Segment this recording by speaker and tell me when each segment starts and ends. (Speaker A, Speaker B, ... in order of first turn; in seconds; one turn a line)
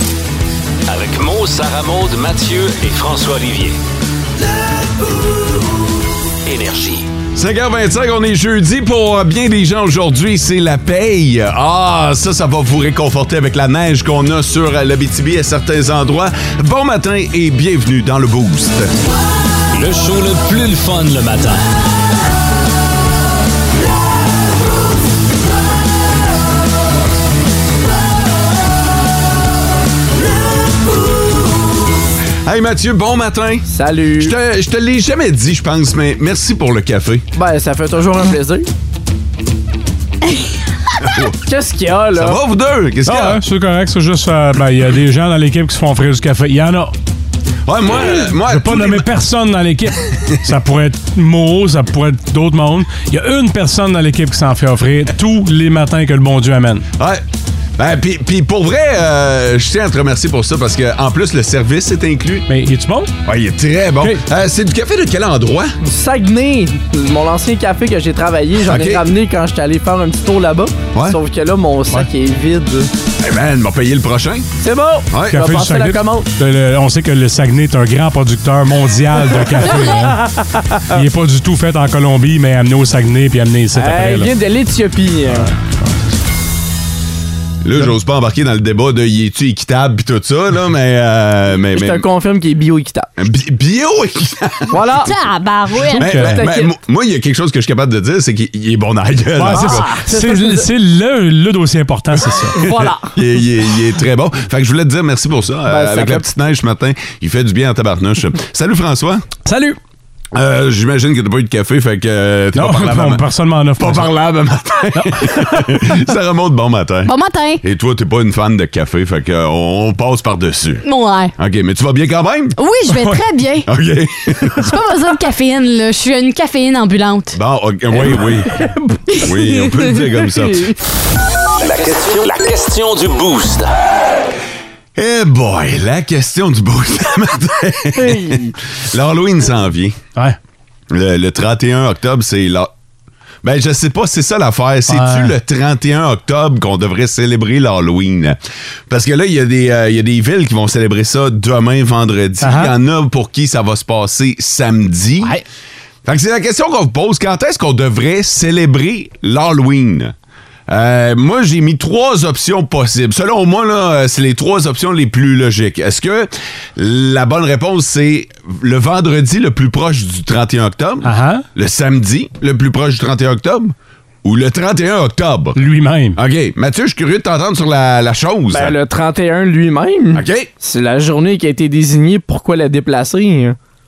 Speaker A: 0.9-3.8
Speaker A: 6.5-7.0
Speaker B: 7.3-18.9
Speaker A: 19.8-21.6
Speaker B: 32.4-37.2
Speaker C: 33.7-34.3
Speaker C: 37.4-38.7
Speaker B: 41.0-41.3
Speaker C: 41.5-42.4
Speaker B: 42.1-43.4
Speaker D: 43.0-46.9
Speaker B: 47.7-49.1
Speaker D: 47.9-56.8
Speaker B: 57.8-62.5
Speaker D: 62.5-63.1
Speaker B: 63.2-65.7
Speaker C: 65.8-72.9
Speaker B: 68.6-69.0
Speaker B: 73.2-74.5
Speaker C: 74.6-76.3
Speaker B: 75.1-75.6
Speaker D: 75.2-84.3
Speaker C: 79.6-80.4
Speaker C: 83.7-85.5
Speaker D: 85.3-86.0
Speaker B: 87.6-92.0
Speaker C: 91.7-93.1
Speaker B: 93.2-94.8
Speaker C: 94.7-95.1
Speaker E: 95.0-96.1
Speaker D: 95.9-96.4
Speaker B: 96.0-100.0
Speaker C: 96.2-96.7
Speaker D: 99.3-102.7
Speaker C: 99.5-100.7
Speaker C: 102.6-103.0
Speaker B: 102.8-109.3
Speaker C: 105.7-106.3
Speaker D: 109.4-109.8
Speaker B: 110.3-113.2
Speaker D: 112.5-114.1
Speaker B: 113.8-120.8
Speaker D: 114.9-115.8
Speaker E: 117.0-117.6
Speaker E: 120.8-121.3
Speaker B: 121.4-122.6
Speaker E: 122.6-123.7
Speaker B: 123.7-124.7
Speaker E: 124.5-127.4
Speaker B: 127.3-130.7
Speaker C: 128.6-128.9
Speaker A: 131.6-133.7
Speaker B: 134.9-140.0
Speaker C: 138.0-138.5
Speaker B: 140.9-142.7
Speaker B: 143.4-155.3
Speaker D: 144.9-145.3
Speaker D: 152.4-152.7
Speaker B: 156.0-160.1
Speaker B: 160.7-175.6
Speaker D: 171.0-171.4
Speaker D: 175.6-176.2
Speaker B: 176.1-178.8
Speaker C: 178.5-183.6
Speaker B: 180.1-180.5